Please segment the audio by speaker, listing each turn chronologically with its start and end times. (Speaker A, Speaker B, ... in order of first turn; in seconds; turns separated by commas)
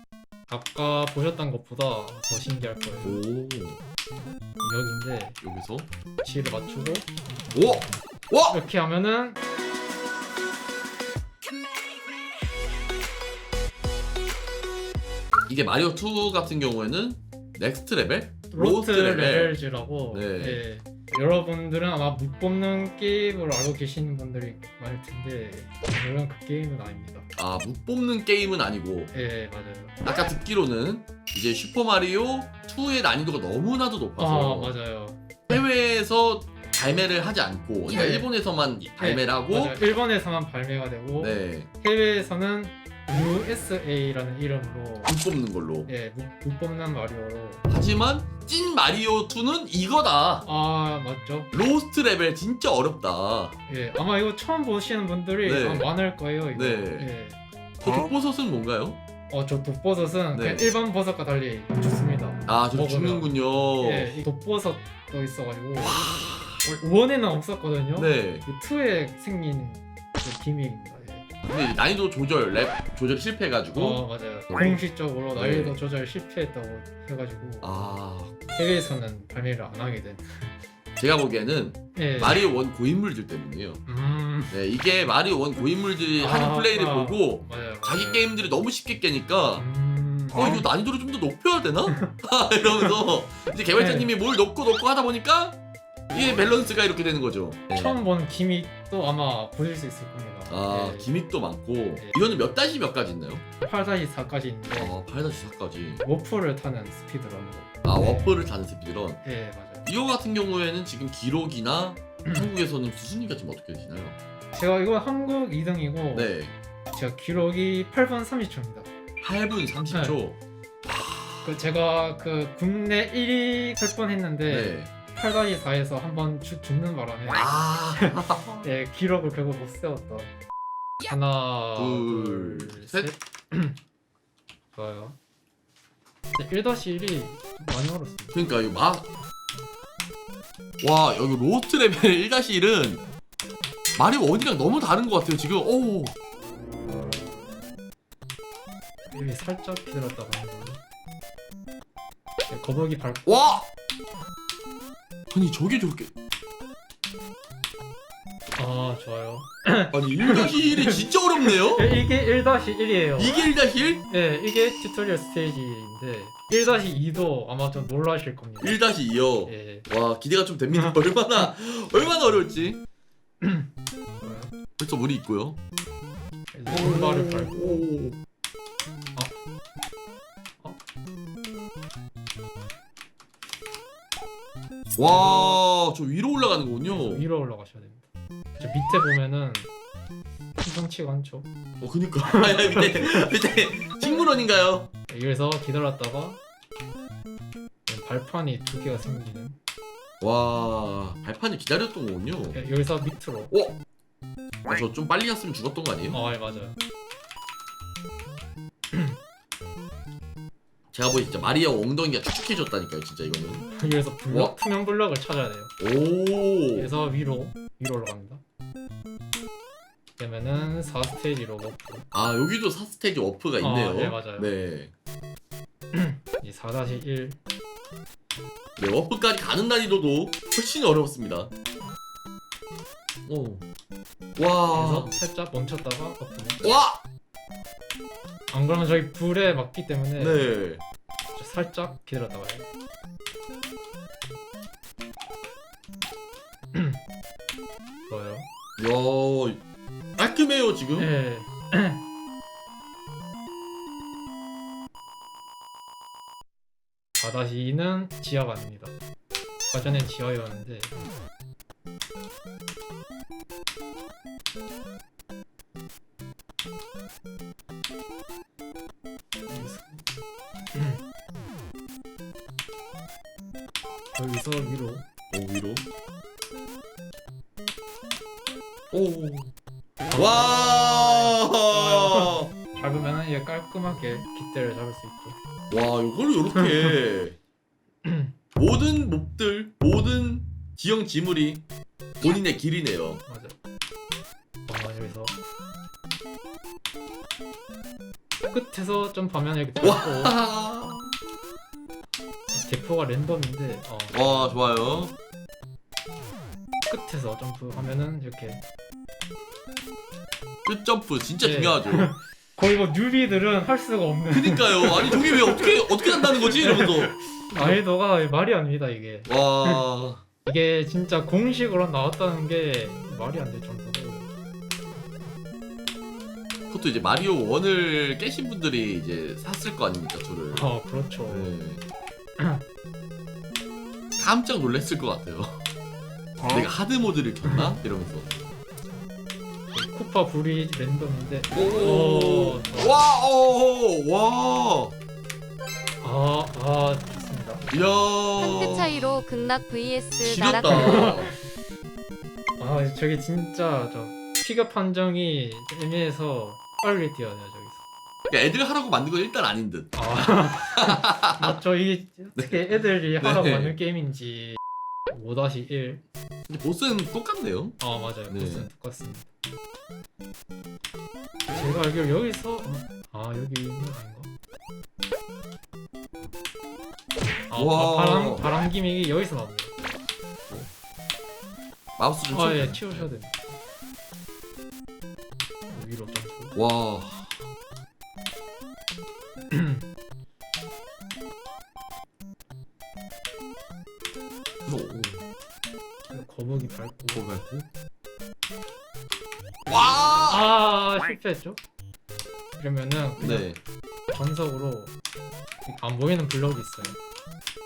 Speaker A: 0.5-3.2, Speaker B: 3.0-3.8, Speaker A: 4.6-5.4, Speaker B: 5.4-5.9, Speaker A: 6.2-7.1, Speaker B: 7.5-8.6, Speaker A: 8.5-9.4, Speaker B: 15.5-19.6, Speaker A: 18.5-27.2, Speaker B: 20.1-20.6, Speaker B: 27.4-29.1, Speaker A: 29.1-29.9, Speaker B: 30.0-34.8, Speaker A: 34.2-35.4, Speaker B: 35.5-39.8, Speaker A: 37.9-38.3, Speaker A: 39.0-45.1, Speaker B: 41.2-41.7, Speaker B: 45.0-45.9, Speaker A: 45.9-47.6, Speaker B: 47.7-50.5, Speaker A: 50.4-51.5, Speaker B: 51.5-53.6, Speaker A: 53.7-57.4, Speaker B: 55.4-55.9, Speaker B: 56.5-57.1, Speaker B: 57.8-59.0, Speaker A: 59.3-66.0, Speaker B: 60.3-60.7, Speaker B: 62.5-64.2, Speaker B: 65.8-66.6, Speaker A: 66.6-71.3, Speaker B: 67.9-68.5, Speaker B: 71.4-74.8, Speaker A: 73.7-77.7, Speaker B: 75.3-75.8, Speaker B: 77.6-78.4, Speaker A: 78.5-80.5, Speaker B: 81.0-83.8, Speaker A: 81.9-82.5, Speaker A: 83.8-84.5, Speaker B: 84.5-89.7, Speaker A: 86.2-88.3, Speaker A: 89.5-90.7, Speaker B: 90.3-95.6, Speaker A: 91.9-92.1, Speaker A: 93.7-94.1, Speaker B: 96.1-98.0, Speaker A: 97.7-101.1, Speaker B: 100.5-103.4, Speaker A: 103.6-105.0, Speaker B: 104.7-106.0, Speaker A: 106.0-108.4, Speaker B: 107.8-109.2, Speaker A: 109.2-109.9, Speaker B: 109.8-114.2, Speaker A: 112.2-112.5, Speaker A: 114.5-116.3, Speaker B: 116.1-116.5, Speaker A: 116.9-118.9, Speaker B: 119.2-121.6, Speaker A: 119.9-120.2, Speaker A: 121.4-130.3, Speaker B: 124.5-124.9, Speaker B: 127.3-128.7, Speaker A: 131.0-133.8, Speaker B: 131.8-133.1, Speaker A: 134.7-135.2, Speaker A: 136.3-138.4, Speaker B: 138.3-139.1, Speaker B: 140.8-143.0, Speaker B: 143.9-146.1, Speaker A: 149.1-150.8, Speaker A: 152.5-153.3, Speaker B: 153.2-153.7, Speaker B: 155.3-156.1, Speaker A: 158.6-163.4, Speaker B: 159.9-161.9, Speaker B: 163.2-164.0, Speaker A: 164.1-168.8, Speaker B: 168.6-172.8, Speaker A: 169.4-169.9, Speaker A: 170.7-171.5, Speaker A: 173.4-174.5, Speaker B: 174.8-175.6, Speaker A: 176.5-177.8, Speaker B: 176.7-178.2, Speaker B: 184.9-187.2, Speaker A: 185.0-185.6, Speaker A: 186.9-189.7, Speaker A: 190.6-191.5, Speaker B: 191.8-194.9, Speaker A: 192.3-193.3, Speaker A: 193.8-194.2, Speaker A: 195.1-196.4, Speaker A: 197.8-199.6, Speaker B: 200.2-202.6, Speaker A: 202.5-203.5, Speaker B: 203.5-203.8, Speaker B: 204.6-206.2, Speaker A: 206.1-206.8, Speaker A: 208.9-209.2, Speaker B: 210.9-213.7, Speaker A: 213.7-215.7, Speaker B: 214.3-214.5, Speaker B: 215.8-216.9, Speaker A: 216.8-218.4, Speaker A: 220.2-222.1, Speaker B: 222.1-224.9, Speaker A: 223.6-224.5, Speaker A: 225.9-227.4, Speaker B: 228.8-231.5, Speaker B: 233.2-233.6, Speaker B: 234.3-235.1, Speaker A: 234.7-236.6, Speaker B: 236.6-237.0, Speaker A: 238.5-240.5, Speaker B: 240.2-240.8, Speaker A: 241.3-242.7, Speaker A: 246.7-247.0, Speaker A: 248.1-248.5, Speaker B: 248.8-249.6, Speaker B: 250.2-251.1, Speaker A: 250.9-252.0, Speaker A: 257.2-258.9, Speaker A: 259.7-261.0, Speaker A: 269.5-270.0, Speaker A: 270.7-271.0, Speaker A: 274.1-275.1, Speaker B: 275.3-275.9, Speaker B: 278.9-279.5, Speaker B: 280.1-282.5, Speaker A: 281.7-285.4, Speaker B: 285.7-287.4, Speaker A: 286.5-286.9, Speaker A: 288.0-288.3, Speaker B: 288.6-291.6, Speaker B: 292.2-293.2, Speaker A: 293.2-293.5, Speaker A: 294.7-295.4, Speaker A: 298.5-300.3, Speaker B: 299.8-301.1, Speaker A: 302.5-304.6, Speaker B: 304.1-305.1, Speaker A: 306.9-308.6, Speaker B: 310.6-312.1, Speaker A: 311.4-319.8, Speaker B: 314.3-317.8, Speaker B: 319.3-320.2, Speaker A: 320.4-324.3, Speaker B: 326.7-330.7, Speaker A: 330.5-331.5, Speaker B: 331.3-331.8, Speaker A: 332.4-332.6, Speaker B: 334.2-335.6, Speaker B: 336.5-338.4, Speaker A: 339.7-343.0, Speaker B: 341.5-344.9, Speaker A: 346.0-347.7, Speaker B: 347.7-349.2, Speaker C: 348.4-351.1, Speaker B: 350.2-351.3, Speaker A: 350.7-351.4, Speaker A: 352.6-357.8, Speaker B: 358.3-361.6, Speaker A: 359.9-364.6, Speaker B: 362.3-363.8, Speaker A: 365.1-366.0, Speaker B: 366.5-368.7, Speaker A: 367.8-369.3, Speaker A: 371.5-374.3, Speaker A: 377.5-379.7, Speaker B: 377.5-378.6, Speaker B: 382.0-383.1, Speaker A: 382.3-383.3, Speaker A: 385.7-386.6, Speaker B: 386.5-387.3, Speaker A: 389.5-389.8, Speaker B: 394.6-395.2, Speaker A: 396.1-397.3, Speaker B: 397.1-397.7, Speaker B: 399.7-400.5, Speaker A: 400.3-401.6, Speaker A: 402.6-403.5, Speaker B: 403.2-403.6, Speaker A: 404.1-404.9, Speaker A: 405.6-407.0